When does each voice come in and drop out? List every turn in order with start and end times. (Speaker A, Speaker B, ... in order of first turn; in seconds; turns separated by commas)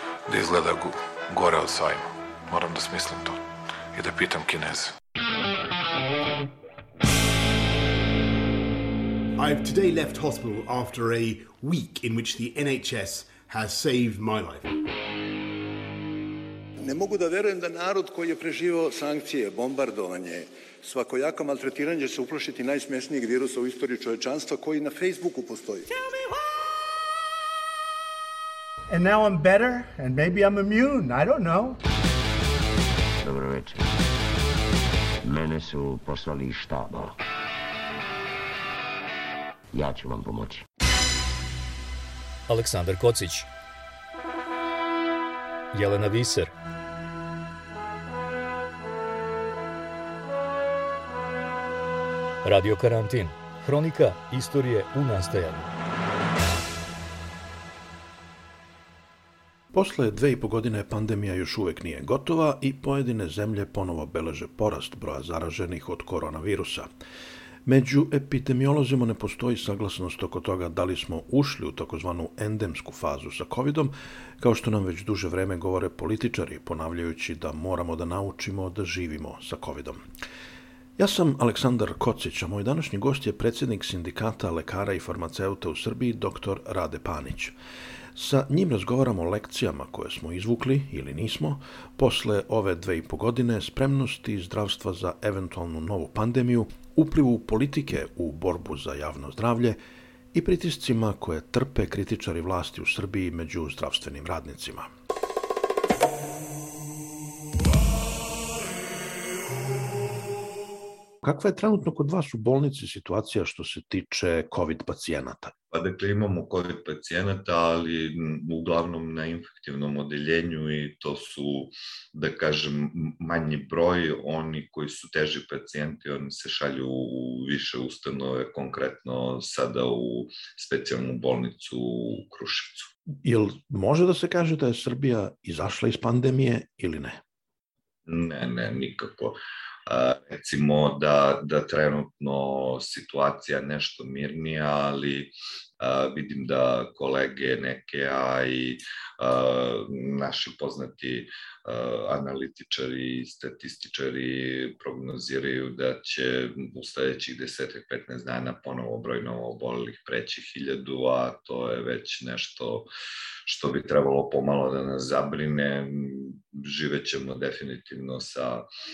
Speaker A: 0.3-3.4, Speaker A: 3.9-5.0, Speaker B: 9.4-14.7, Speaker C: 16.8-26.0, Speaker D: 28.9-31.8, Speaker E: 33.2-34.0, Speaker E: 35.2-37.2, Speaker E: 39.7-40.6, Speaker F: 42.5-43.5, Speaker F: 45.7-46.5, Speaker F: 52.4-55.7, Speaker G: 59.7-66.9, Speaker G: 67.7-80.0, Speaker G: 81.0-87.5, Speaker G: 88.1-99.8, Speaker G: 100.3-104.9, Speaker G: 111.2-115.5, Speaker H: 115.7-132.9, Speaker G: 133.2-137.2, Speaker H: 138.1-162.9, Speaker H: 163.5-168.6